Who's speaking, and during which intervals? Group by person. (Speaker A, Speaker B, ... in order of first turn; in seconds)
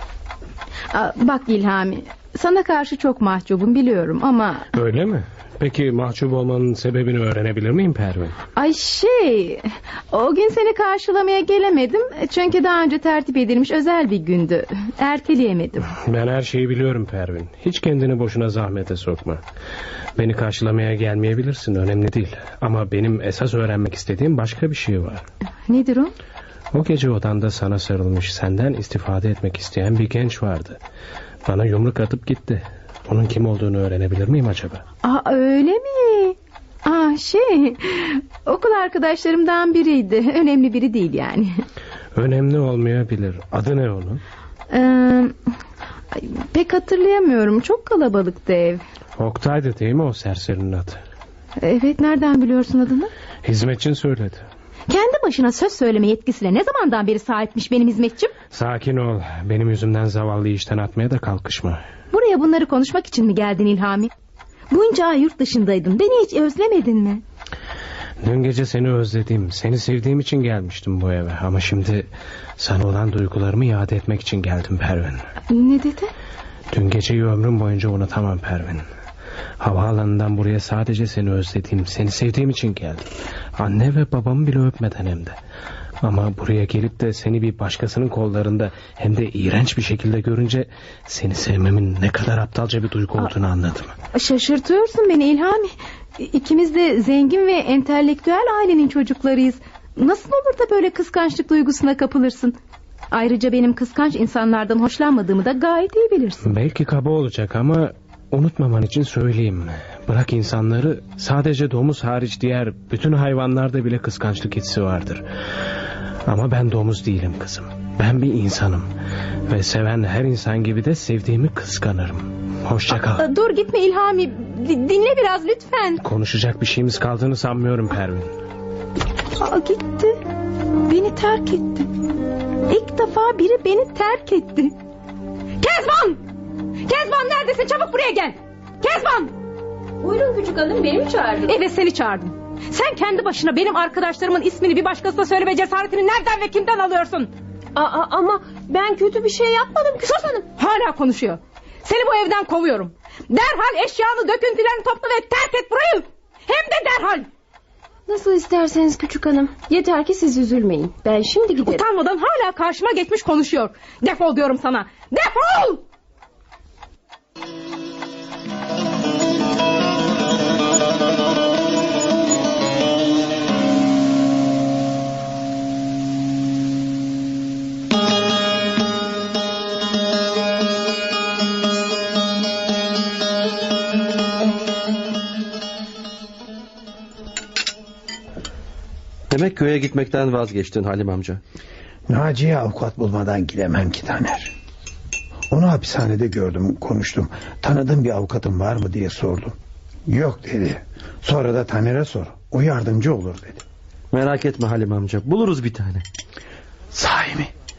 Speaker A: 0.9-4.7, 8.6-15.9, 25.7-26.1, 35.0-41.5, 44.7-45.3, 46.1-48.8, 51.6-53.1, 54.9-58.3, 62.1-64.1, 64.7-67.2, 75.5-76.1, 94.1-102.5, 103.1-106.4, 123.1-126.0, 129.3-130.2, 130.9-131.9, 132.6-134.7, 135.6-136.2, 136.8-139.3, 141.4-147.3, 150.5-157.3, 161.6-165.8
Speaker B: 4.7-8.3, 16.1-19.4, 20.2-25.2, 26.7-30.8, 31.4-34.8, 42.1-44.2, 49.2-51.0, 53.4-54.4, 58.5-61.8, 68.2-75.2, 76.7-78.8, 79.6-83.1, 83.6-85.4, 86.0-93.9, 106.5-115.2, 116.3-118.9, 119.5-123.2, 126.0-128.3
Speaker C: 140.0-141.6, 147.7-150.5, 158.1-161.8
Speaker D: 189.3-191.4, 204.1-206.0
Speaker E: 192.1-194.5, 195.5-199.6, 200.1-203.6, 206.9-207.5